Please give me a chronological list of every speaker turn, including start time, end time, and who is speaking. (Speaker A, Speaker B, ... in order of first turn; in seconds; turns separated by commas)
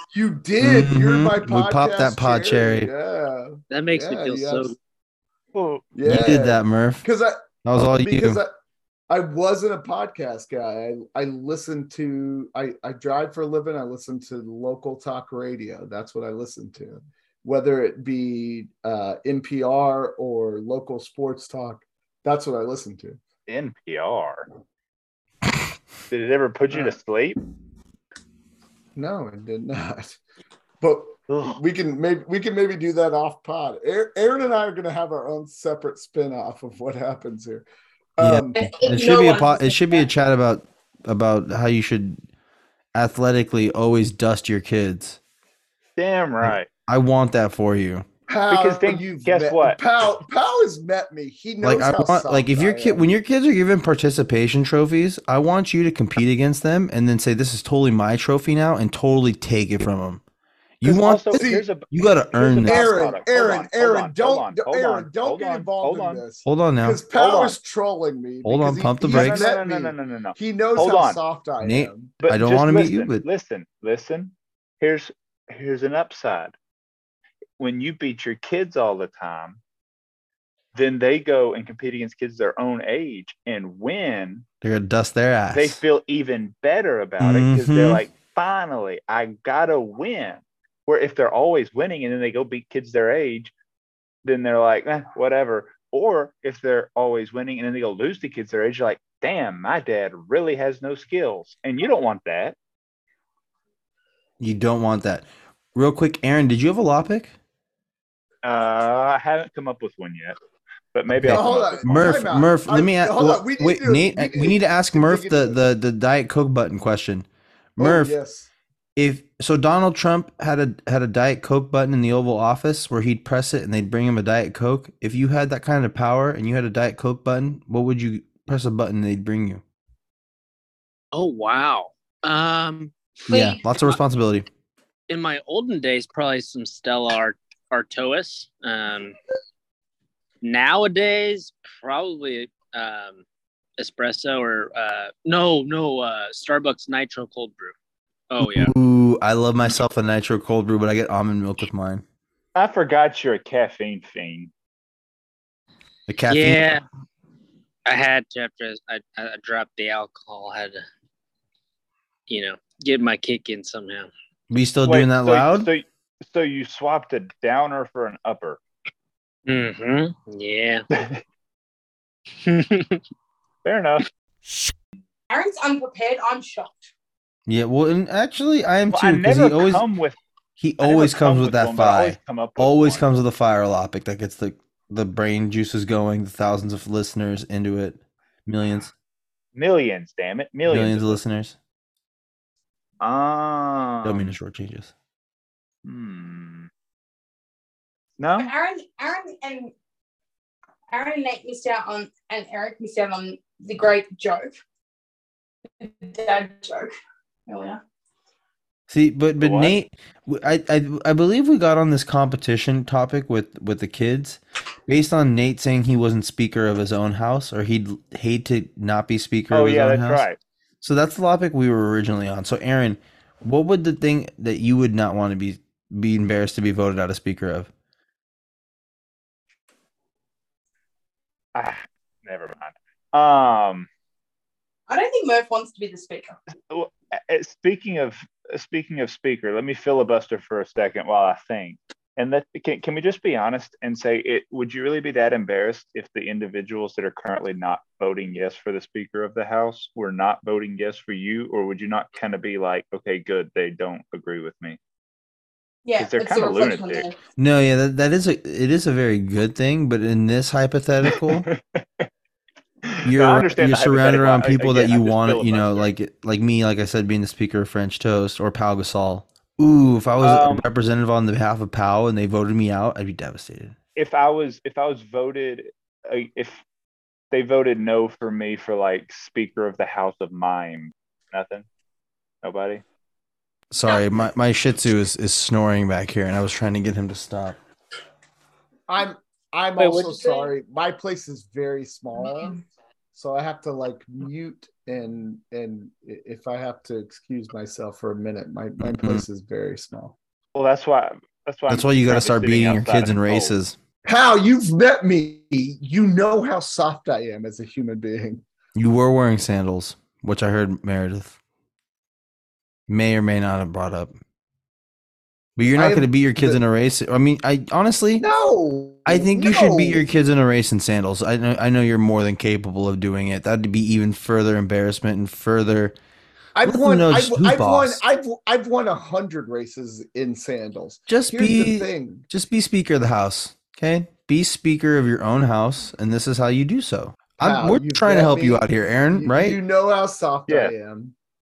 Speaker A: 0.1-4.7, Speaker B: 0.6-2.9, Speaker C: 3.7-4.8, Speaker D: 5.5-5.8, Speaker A: 5.9-8.5, Speaker B: 6.0-7.0, Speaker B: 7.6-8.4, Speaker A: 9.1-23.2, Speaker D: 23.5-24.4, Speaker D: 26.1-27.4, Speaker A: 26.7-27.0, Speaker A: 28.9-30.2, Speaker A: 30.8-37.6, Speaker D: 31.3-31.6, Speaker A: 38.2-38.6, Speaker B: 38.2-42.2, Speaker E: 38.5-40.0, Speaker B: 42.9-45.2, Speaker D: 46.0-46.7, Speaker B: 46.4-48.0, Speaker A: 48.3-53.1, Speaker D: 48.5-49.8, Speaker B: 51.6-60.2, Speaker B: 60.8-62.9, Speaker D: 60.8-66.2, Speaker A: 61.3-61.7, Speaker A: 62.6-72.2, Speaker B: 66.4-67.0, Speaker D: 67.1-67.6, Speaker B: 68.4-69.4, Speaker D: 69.0-71.2, Speaker B: 71.6-73.2, Speaker D: 72.2-76.5, Speaker D: 77.6-79.6, Speaker D: 80.7-84.4, Speaker B: 84.6-85.8, Speaker D: 85.5-93.5, Speaker B: 87.2-88.0, Speaker D: 94.2-102.6, Speaker B: 104.4-107.3, Speaker D: 108.4-110.3, Speaker D: 110.9-112.2, Speaker B: 111.2-117.2, Speaker A: 111.2-115.6, Speaker B: 117.8-118.2, Speaker A: 117.8-118.5, Speaker B: 119.0-129.6, Speaker C: 131.1-132.9, Speaker E: 133.3-133.6, Speaker B: 133.3-134.5, Speaker C: 135.1-139.2, Speaker C: 140.4-143.2, Speaker C: 143.8-147.7, Speaker C: 148.3-148.7, Speaker B: 148.4-152.0, Speaker D: 152.5-154.5, Speaker B: 156.1-156.7, Speaker C: 156.3-156.8, Speaker C: 157.8-160.8, Speaker C: 162.3-164.1, Speaker B: 164.5-165.7, Speaker D: 164.8-168.6, Speaker C: 169.4-170.8, Speaker D: 170.9-171.2, Speaker C: 172.4-173.0, Speaker D: 173.6-174.0, Speaker E: 175.3-176.9, Speaker B: 177.5-179.8, Speaker D: 178.9-180.2, Speaker B: 180.6-188.9, Speaker D: 180.8-183.0, Speaker D: 189.5-191.2, Speaker B: 190.7-191.6, Speaker D: 193.0-194.3, Speaker B: 194.0-194.9, Speaker D: 195.8-196.7, Speaker D: 198.2-198.5, Speaker E: 198.4-199.7, Speaker E: 200.9-204.6, Speaker E: 205.8-206.9, Speaker E: 207.5-207.8, Speaker B: 208.9-220.2, Speaker D: 209.4-209.7, Speaker D: 219.5-220.4, Speaker B: 220.8-227.7, Speaker D: 231.5-233.9, Speaker E: 234.9-236.3, Speaker D: 236.7-254.8, Speaker E: 255.8-257.1, Speaker D: 255.9-257.1, Speaker B: 257.4-261.5, Speaker D: 261.1-262.1, Speaker D: 262.9-265.9, Speaker B: 263.0-273.8, Speaker D: 270.2-270.7, Speaker D: 273.9-276.6, Speaker D: 277.3-281.6, Speaker D: 282.4-282.8, Speaker B: 283.7-287.6, Speaker A: 288.9-292.6, Speaker C: 289.8-290.5, Speaker A: 293.1-300.1, Speaker B: 298.8-299.2, Speaker D: 300.5-303.5, Speaker B: 301.7-303.8, Speaker A: 304.0-308.4, Speaker B: 308.7-311.4, Speaker B: 312.9-314.1, Speaker B: 315.6-318.2, Speaker A: 315.7-316.6, Speaker A: 318.2-320.0, Speaker B: 319.1-325.9, Speaker A: 326.6-332.2, Speaker B: 326.6-328.0, Speaker B: 331.1-339.6, Speaker A: 337.4-341.1, Speaker D: 340.5-340.7